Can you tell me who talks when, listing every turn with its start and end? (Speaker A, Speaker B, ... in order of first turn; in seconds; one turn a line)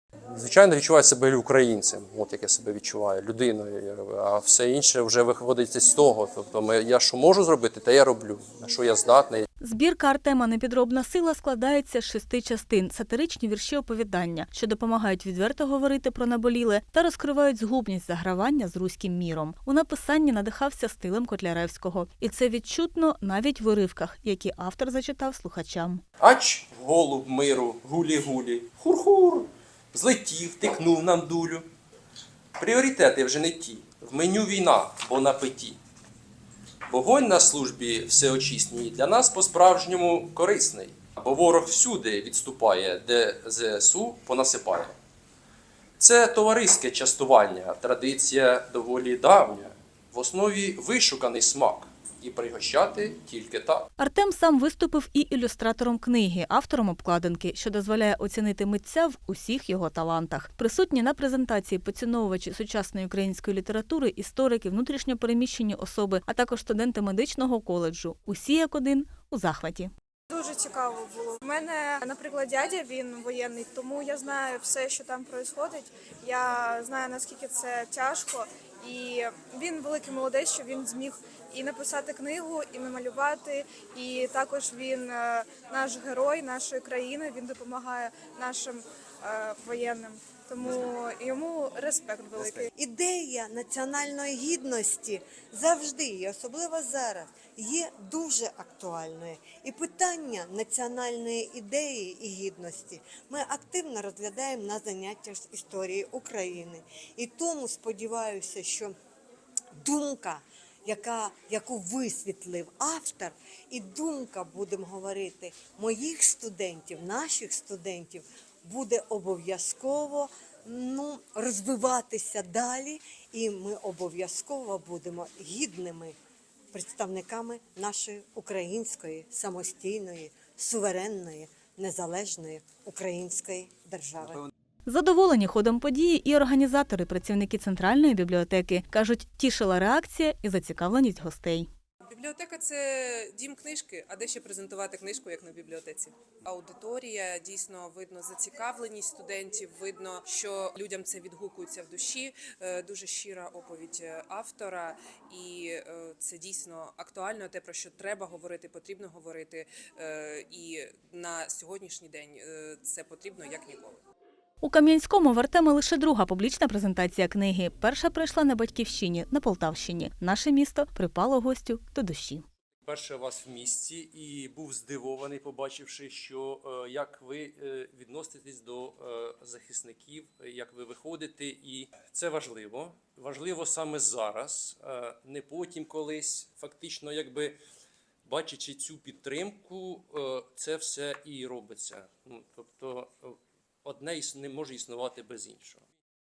Speaker A: 0.3-9.4
Speaker B: 9.6-26.0
Speaker A: 26.2-31.6
Speaker A: 32.5-35.8
Speaker A: 36.9-44.9
Speaker A: 46.0-53.9
Speaker B: 54.0-69.9
Speaker C: 70.3-92.7
Speaker D: 92.7-108.9
Speaker D: 109.7-126.2
Speaker D: 126.7-134.4
Speaker B: 134.8-141.7
Speaker E: 142.0-164.0
Speaker B: 164.6-172.4
Speaker A: 172.8-187.6
Speaker A: 188.2-195.8